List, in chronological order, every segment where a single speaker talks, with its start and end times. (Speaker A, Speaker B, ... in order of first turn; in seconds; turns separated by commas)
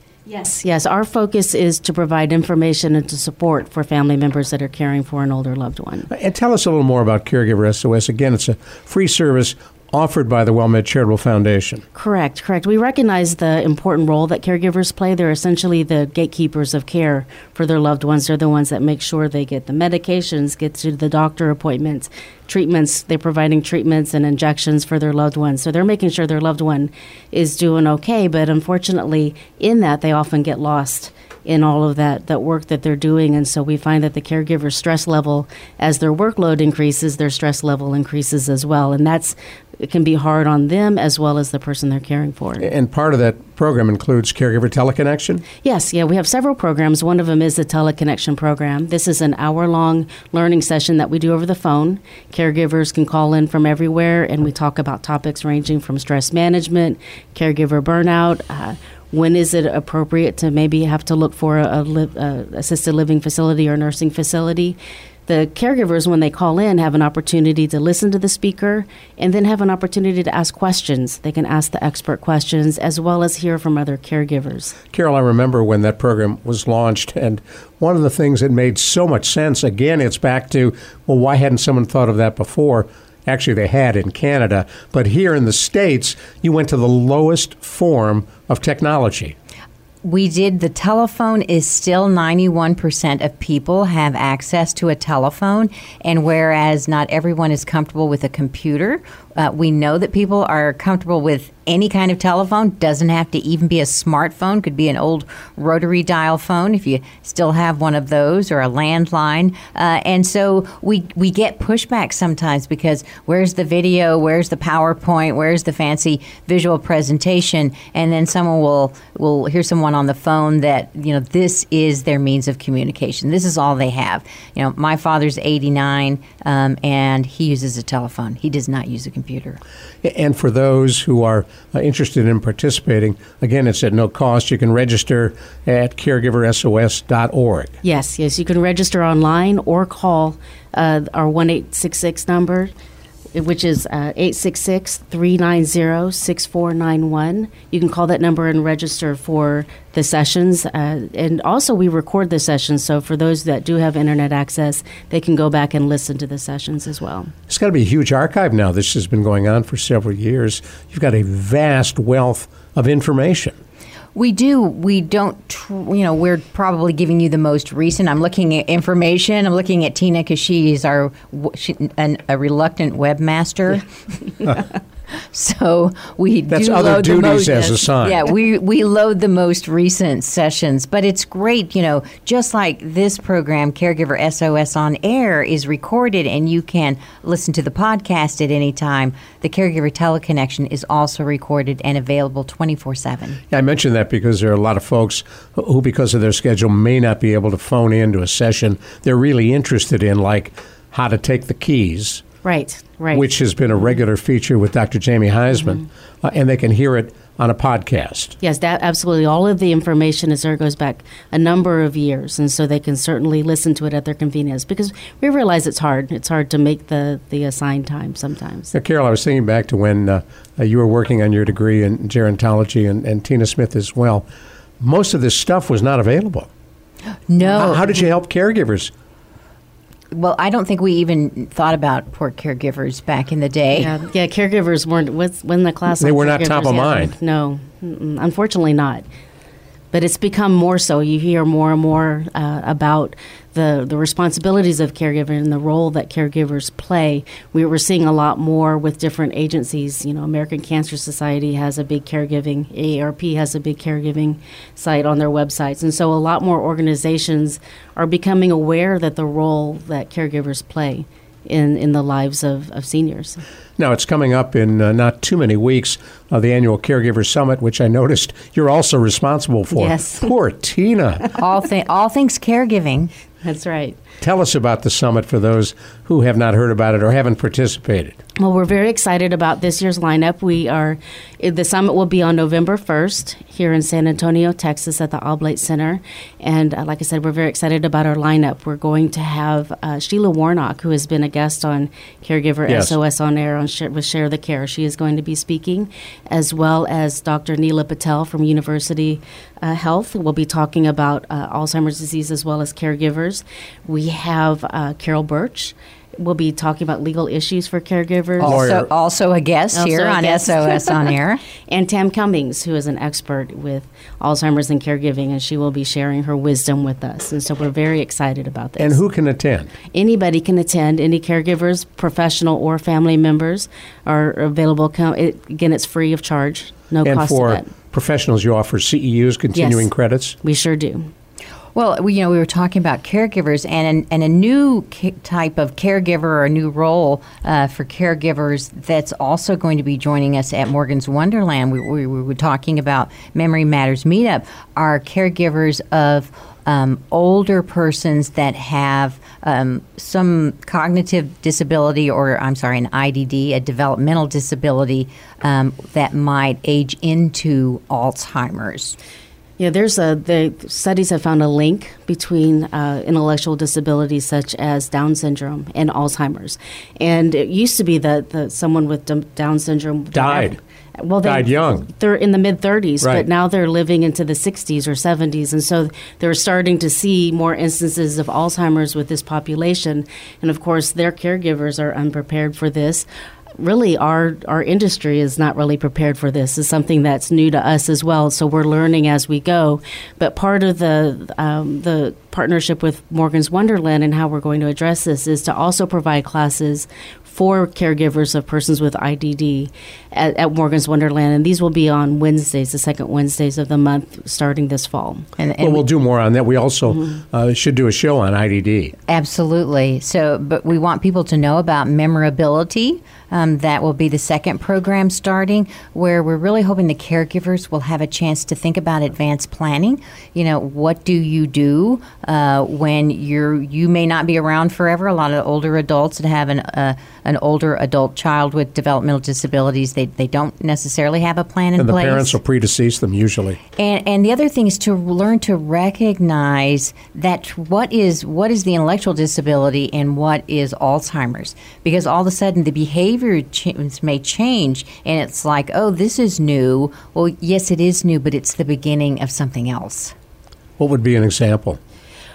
Speaker A: 0.3-6.1, Speaker B: 6.1-11.8, Speaker A: 11.9-42.7, Speaker B: 42.6-45.5, Speaker A: 45.6-74.8, Speaker B: 74.9-89.3, Speaker C: 90.0-129.6, Speaker B: 130.0-137.8, Speaker A: 137.8-142.7, Speaker A: 143.3-157.3, Speaker B: 157.5-163.6, Speaker C: 164.1-173.9, Speaker C: 175.1-193.4, Speaker B: 176.5-178.2, Speaker B: 193.5-202.2, Speaker A: 202.4-203.2, Speaker B: 203.1-208.4, Speaker A: 208.4-218.7, Speaker B: 218.7-224.3, Speaker B: 224.8-226.5, Speaker C: 227.3-228.0, Speaker B: 227.4-228.9, Speaker C: 230.1-233.9, Speaker A: 233.8-239.0, Speaker B: 236.0-237.1, Speaker A: 239.9-263.4, Speaker B: 263.8-271.3, Speaker A: 269.7-270.3, Speaker C: 271.4-273.1, Speaker A: 273.4-274.0, Speaker B: 274.2-278.2, Speaker A: 278.4-308.6, Speaker B: 292.7-293.0, Speaker C: 308.4-311.4, Speaker B: 308.4-308.9, Speaker A: 309.7-311.1, Speaker A: 311.7-319.0, Speaker B: 318.8-319.7, Speaker A: 319.9-327.7, Speaker B: 327.0-330.4, Speaker A: 329.5-329.9, Speaker A: 330.4-331.1, Speaker C: 331.8-359.0, Speaker A: 359.6-405.3, Speaker B: 370.1-370.6, Speaker B: 371.2-371.9, Speaker B: 373.0-373.3, Speaker C: 405.4-405.8, Speaker B: 405.6-408.9, Speaker C: 409.1-432.4, Speaker B: 431.8-433.6, Speaker C: 433.8-450.1, Speaker B: 450.8-451.8